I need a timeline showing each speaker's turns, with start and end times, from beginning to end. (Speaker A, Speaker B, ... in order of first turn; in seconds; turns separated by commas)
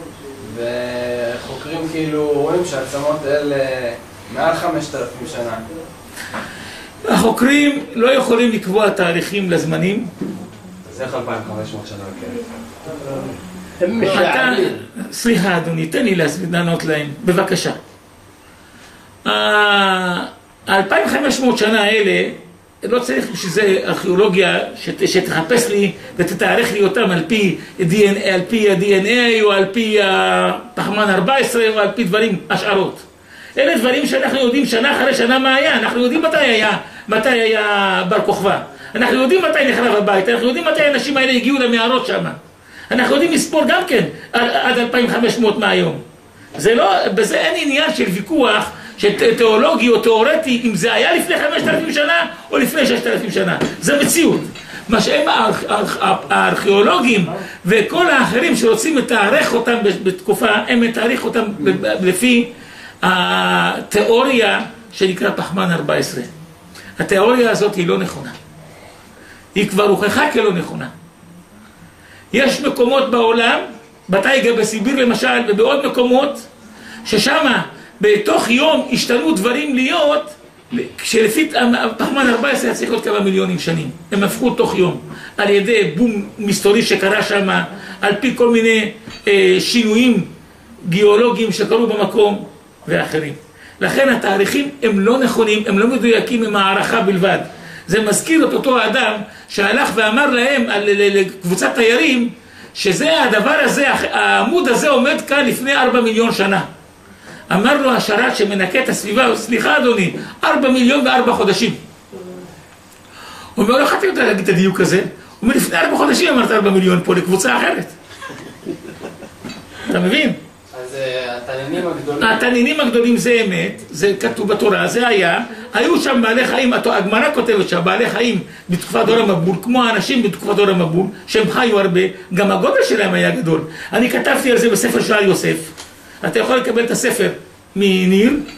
Speaker A: 0.4-5.7, Speaker B: 7.0-10.1, Speaker C: 10.9-13.3, Speaker A: 13.8-14.8, Speaker B: 14.0-17.8, Speaker B: 19.2-33.0, Speaker B: 33.6-42.4, Speaker B: 42.9-46.0, Speaker B: 46.5-62.5, Speaker B: 63.0-66.3, Speaker B: 67.0-68.4, Speaker B: 69.5-70.9, Speaker B: 72.3-76.5, Speaker B: 77.1-90.3, Speaker B: 90.9-106.7, Speaker B: 107.5-111.8, Speaker B: 113.6-118.0, Speaker B: 119.8-120.4, Speaker A: 120.7-122.4, Speaker B: 122.2-138.4